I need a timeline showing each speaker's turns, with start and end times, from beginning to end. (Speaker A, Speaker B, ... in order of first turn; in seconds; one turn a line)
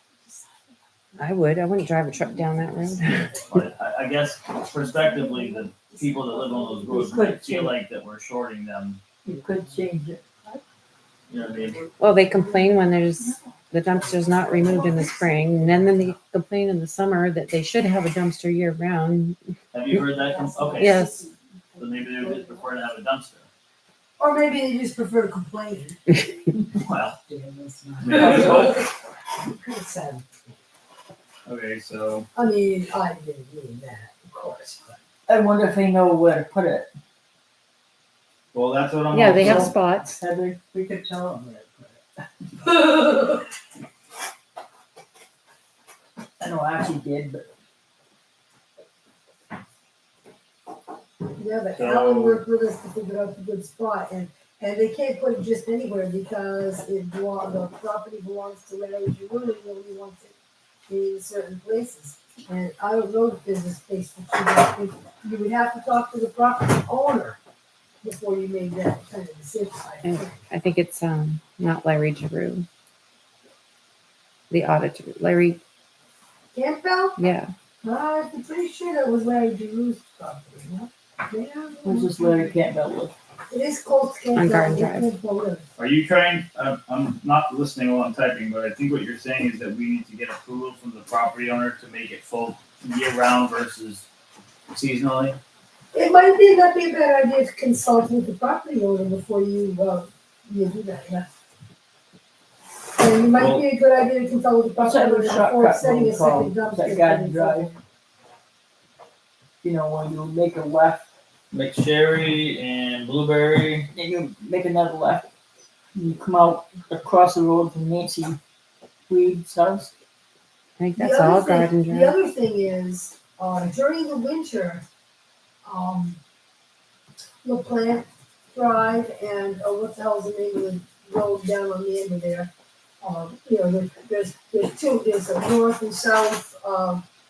Speaker A: 1.1-3.3
Speaker B: 3.3-9.0
Speaker C: 6.8-7.8
Speaker C: 9.2-10.2
Speaker D: 9.3-9.6
Speaker B: 11.3-11.8
Speaker A: 12.0-19.4
Speaker D: 14.5-15.7
Speaker B: 19.7-21.0
Speaker C: 19.9-21.3
Speaker D: 20.4-21.2
Speaker A: 20.8-21.2
Speaker B: 21.8-23.5
Speaker D: 22.1-22.7
Speaker D: 24.2-26.2
Speaker B: 26.7-27.2
Speaker C: 27.3-28.7
Speaker D: 27.9-28.9
Speaker B: 28.0-28.8
Speaker D: 29.4-30.6
Speaker B: 31.4-32.3
Speaker D: 32.3-35.0
Speaker C: 35.3-36.9
Speaker B: 38.5-39.7
Speaker A: 39.1-40.2
Speaker C: 39.2-42.0
Speaker C: 46.4-47.4
Speaker D: 51.3-60.3
Speaker B: 51.7-52.4
Speaker D: 60.9-67.4
Speaker D: 68.0-70.4
Speaker A: 70.0-72.7
Speaker A: 74.5-75.6
Speaker D: 76.5-77.2
Speaker A: 77.2-77.5
Speaker D: 77.8-82.5
Speaker C: 81.8-83.1
Speaker D: 83.5-85.7
Speaker A: 84.3-85.1
Speaker B: 85.8-94.0
Speaker B: 94.7-95.4
Speaker D: 95.9-101.3
Speaker D: 103.0-107.8
Speaker B: 103.4-103.6
Speaker C: 104.8-107.7
Speaker C: 109.6-111.1
Speaker B: 111.5-113.9
Speaker C: 113.9-115.3
Speaker C: 115.9-118.4
Speaker C: 119.1-119.9
Speaker A: 120.8-122.1
Speaker D: 121.0-124.8
Speaker D: 125.6-126.2
Speaker D: 127.4-137.0